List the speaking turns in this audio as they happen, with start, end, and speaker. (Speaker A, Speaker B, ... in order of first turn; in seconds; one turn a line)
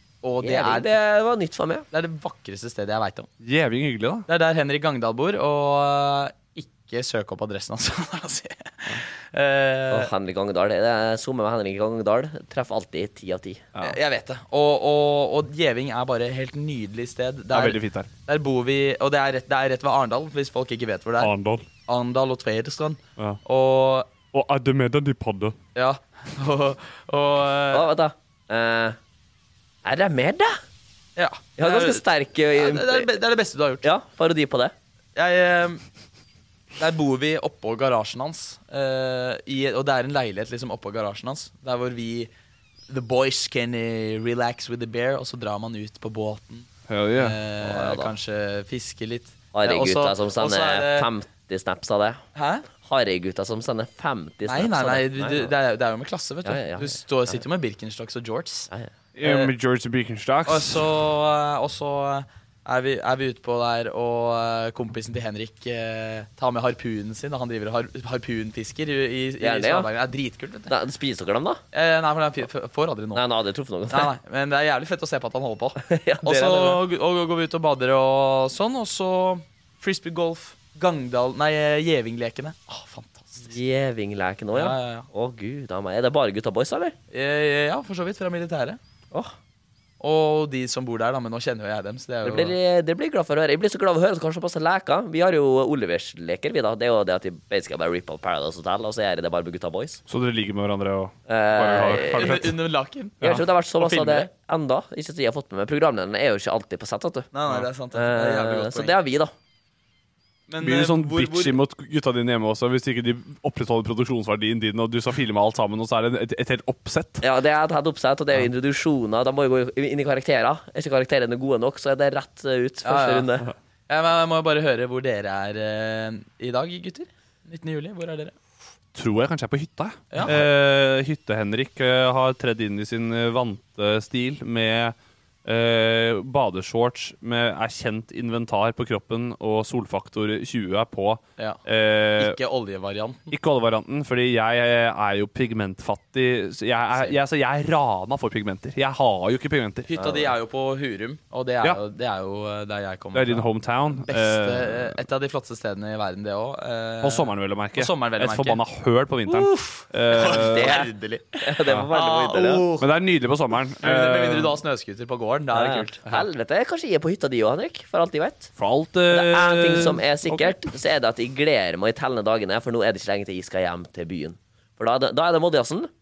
Speaker A: 0.2-0.9
Speaker B: 0.4-1.9
Speaker A: 1.9-3.3
Speaker C: 3.4-4.3
Speaker A: 4.3-10.1
Speaker B: 9.9-13.6
Speaker A: 13.8-21.3
Speaker C: 17.5-18.1
Speaker C: 21.2-21.6
Speaker A: 21.9-24.1
Speaker C: 24.3-25.6
Speaker A: 25.7-27.9
Speaker B: 27.7-29.0
Speaker B: 29.8-30.6
Speaker A: 31.1-32.0
Speaker B: 31.6-33.1
Speaker A: 32.5-33.8
Speaker B: 33.8-34.7
Speaker A: 35.1-35.8
Speaker A: 36.8-42.3
Speaker A: 42.9-51.1
Speaker C: 46.9-47.4
Speaker B: 47.6-48.1
Speaker B: 49.5-52.2
Speaker A: 52.3-52.6
Speaker B: 52.8-55.5
Speaker A: 54.4-58.7
Speaker B: 56.4-57.4
Speaker C: 59.1-60.9
Speaker A: 59.2-59.5
Speaker A: 60.5-70.7
Speaker B: 69.4-69.9
Speaker B: 70.7-71.6
Speaker A: 71.7-73.2
Speaker B: 73.1-74.1
Speaker A: 73.9-83.5
Speaker B: 75.8-76.8
Speaker B: 83.5-86.9
Speaker A: 84.5-85.1
Speaker A: 87.1-88.8
Speaker A: 90.0-92.5
Speaker B: 92.2-100.0
Speaker C: 100.1-102.6
Speaker B: 101.3-102.4
Speaker A: 102.1-103.2
Speaker B: 103.2-107.3
Speaker A: 103.8-104.3
Speaker A: 107.3-109.0
Speaker B: 107.9-109.3
Speaker A: 110.5-111.6
Speaker C: 110.6-117.2
Speaker B: 117.2-123.5
Speaker A: 122.8-123.3
Speaker A: 123.9-128.3
Speaker C: 128.9-142.4
Speaker A: 130.1-130.4
Speaker A: 142.2-143.3
Speaker C: 143.3-149.9
Speaker A: 149.9-158.6
Speaker B: 149.9-150.2
Speaker C: 153.1-155.0
Speaker C: 157.0-160.8
Speaker A: 159.2-162.8
Speaker B: 160.2-162.6
Speaker C: 162.8-164.6
Speaker A: 163.8-166.0
Speaker B: 165.5-168.5
Speaker C: 168.6-170.7
Speaker B: 169.1-175.9